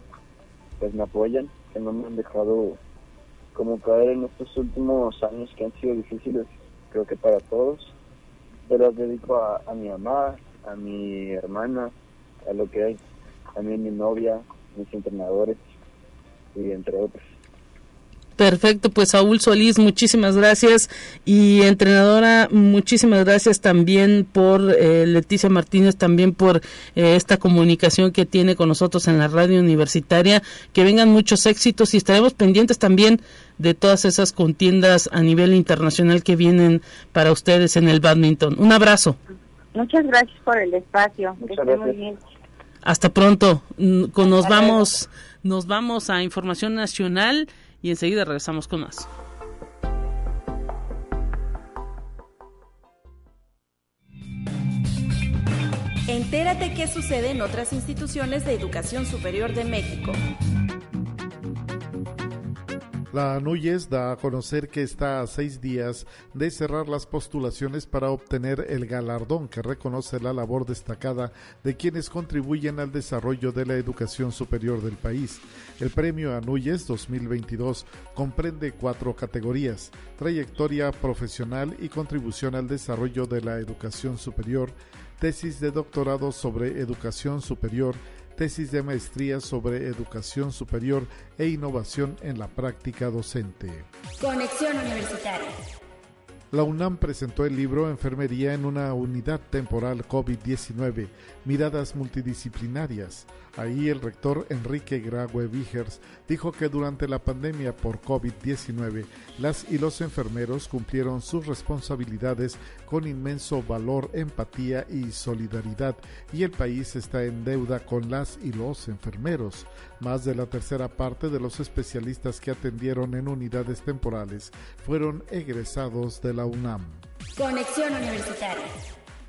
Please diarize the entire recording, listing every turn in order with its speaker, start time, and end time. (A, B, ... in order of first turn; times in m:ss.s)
0:00.8-0:02.8 A
0:03.5-0:08.0 A
0:08.7-0:11.9 A
0:12.4-0:13.0 A
0:13.6-0:15.7 A
0:16.6-0:17.3 A
0:18.4-0:39.2 B
0:39.7-0:42.2 C
0:41.4-0:42.0 A
0:42.8-0:49.1 B
0:44.4-0:44.8 C
0:56.1-1:00.2 D
1:03.1-1:33.9 E
1:34.2-1:35.5 D
1:36.5-2:07.0 E
2:07.4-2:08.7 D